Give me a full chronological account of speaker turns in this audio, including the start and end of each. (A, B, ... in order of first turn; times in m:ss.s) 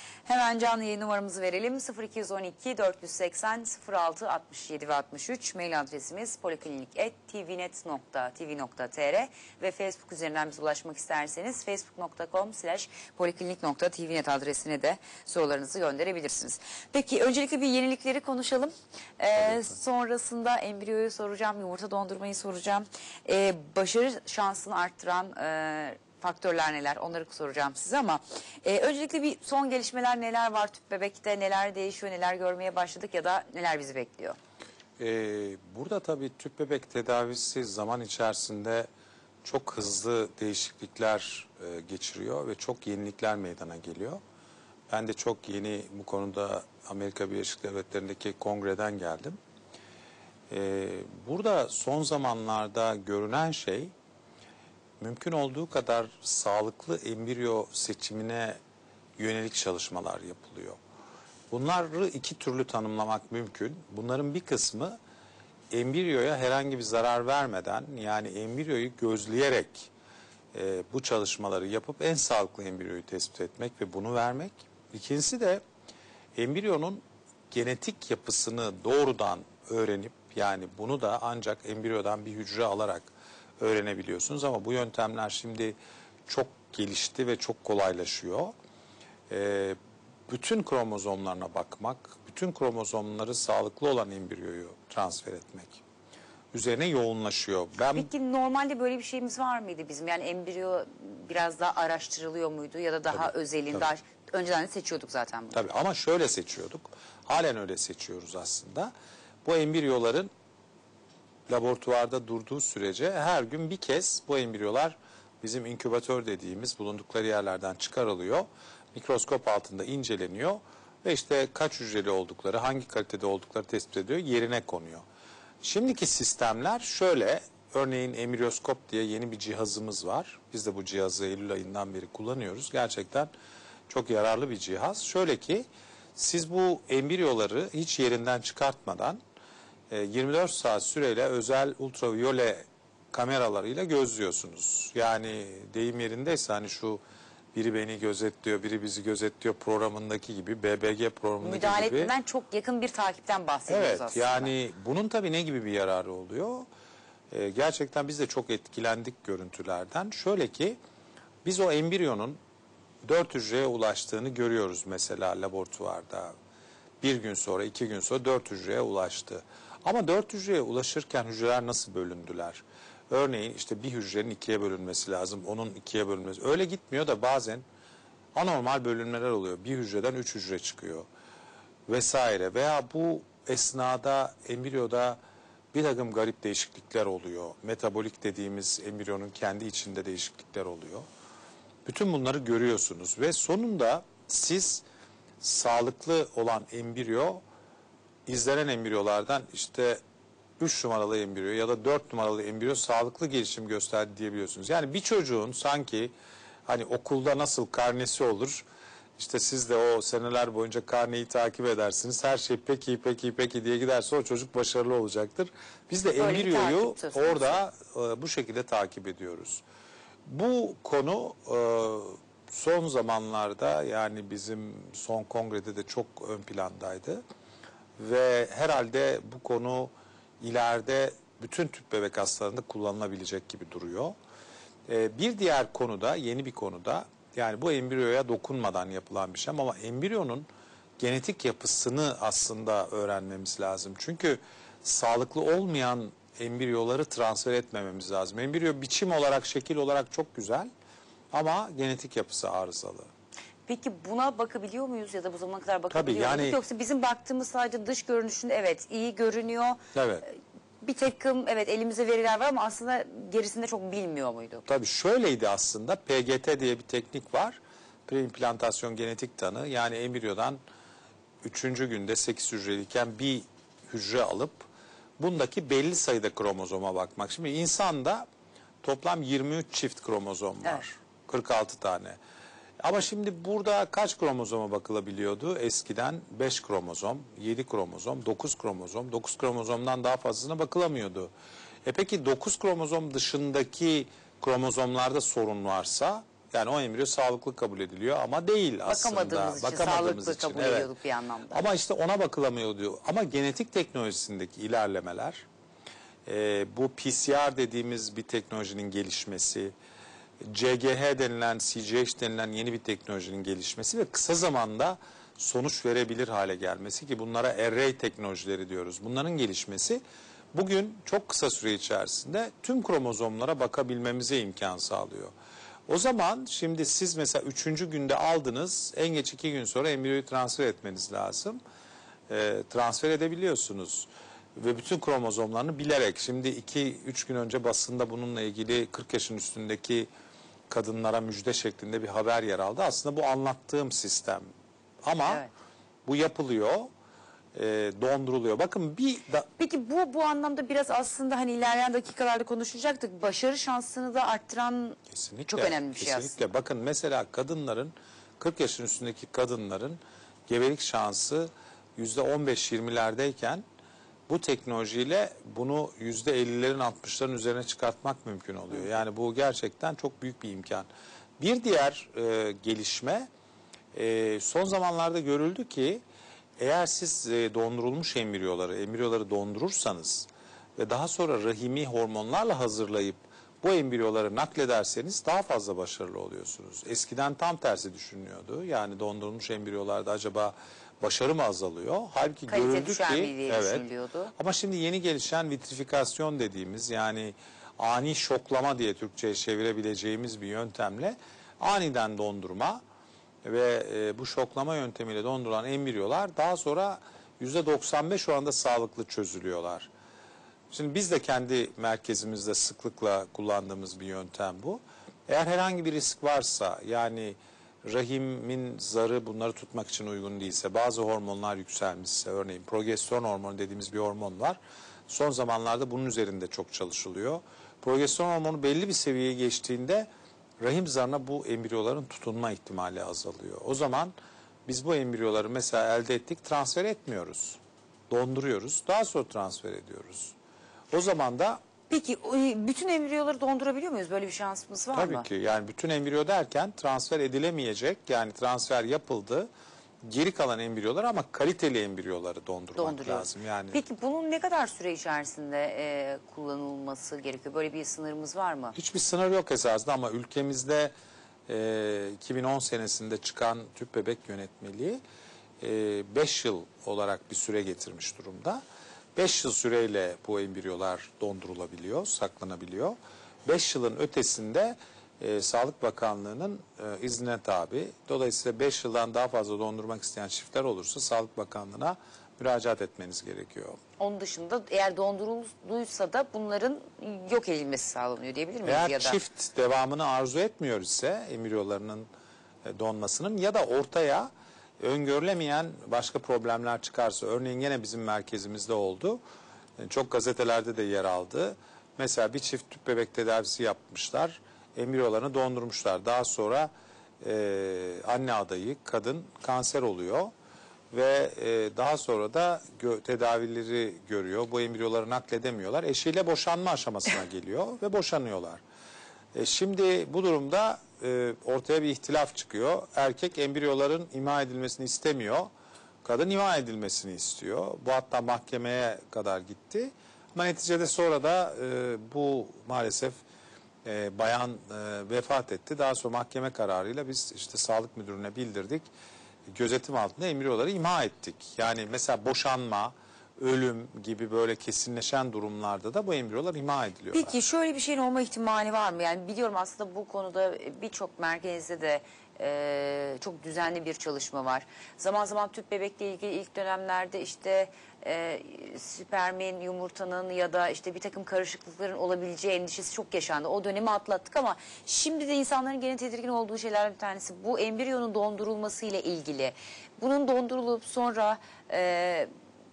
0:00.2-0:34.4 A
0:19.4-0:19.7 B
0:35.0-0:38.9 B
0:39.4-0:44.2 B
0:44.9-0:49.4 B
0:50.5-0:53.9 B
0:55.0-0:58.6 B
0:59.2-1:00.8 B
1:01.5-1:05.0 B
1:05.7-1:09.9 B
1:10.5-1:15.6 B
1:16.4-1:28.5 B
1:29.3-1:29.8 B
1:30.3-1:35.8 B
1:36.5-1:38.1 B
1:37.9-1:45.6 A
1:43.1-1:43.9 B
1:45.5-1:48.9 B
1:49.4-1:50.3 B
1:51.5-2:05.0 B
2:05.6-2:13.3 B
2:13.9-2:19.2 B
2:19.9-2:27.0 B
2:27.5-2:32.1 B
2:31.4-2:34.5 A
2:33.7-2:36.7 B
2:37.3-2:40.8 B
2:41.4-2:42.4 B
2:43.0-2:46.3 B
2:47.0-2:57.6 B
2:58.3-3:01.1 B
3:01.9-3:05.2 B
3:05.7-3:11.1 B
3:11.8-3:14.8 B
3:15.4-3:17.4 B
3:18.2-3:20.0 B
3:20.6-3:26.1 B
3:26.7-3:28.6 B
3:29.2-3:39.6 B
3:36.2-3:37.6 A
3:40.2-3:47.2 B
3:48.0-3:54.1 B
3:54.9-4:00.5 B
4:01.0-4:10.7 B
4:11.3-4:13.1 B
4:13.7-4:24.6 A
4:15.9-4:16.6 B
4:19.9-4:20.2 B
4:24.6-4:30.6 B
4:31.4-4:34.7 B
4:35.2-4:38.3 B
4:38.8-4:42.2 B
4:42.8-4:51.3 B
4:51.8-5:00.9 B
4:58.8-5:01.6 A
5:01.5-5:05.4 B
5:06.2-5:09.7 B
5:10.4-5:20.0 B
5:20.5-5:25.3 B
5:25.9-5:31.6 B
5:32.3-5:40.1 B
5:40.7-5:44.5 B
5:45.0-5:45.4 B
5:46.0-5:46.9 B
5:47.5-5:49.5 B
5:49.6-5:56.4 A
5:55.1-6:03.6 B
6:04.3-6:10.9 B
6:11.4-6:13.3 B
6:13.9-6:16.0 B
6:16.6-6:42.8 B
6:32.5-6:34.3 A
6:43.4-6:49.9 B
6:50.7-7:10.1 B
7:10.6-7:14.1 B
7:14.6-7:20.3 B
7:20.9-7:21.6 B
7:21.9-7:25.2 A
7:24.9-7:29.5 B
7:30.0-7:33.8 B
7:32.8-7:38.8 A
7:38.7-7:40.9 B
7:41.5-7:45.0 B
7:45.6-7:48.6 B
7:49.2-8:03.8 B
8:04.0-8:09.2 A
8:08.6-8:12.1 B
8:12.6-8:19.2 B
8:19.8-8:30.3 B
8:30.9-8:38.6 B
8:39.3-8:45.5 B
8:46.0-8:53.2 B
8:53.8-8:58.9 B
8:59.5-9:07.3 B
9:07.1-9:32.3 A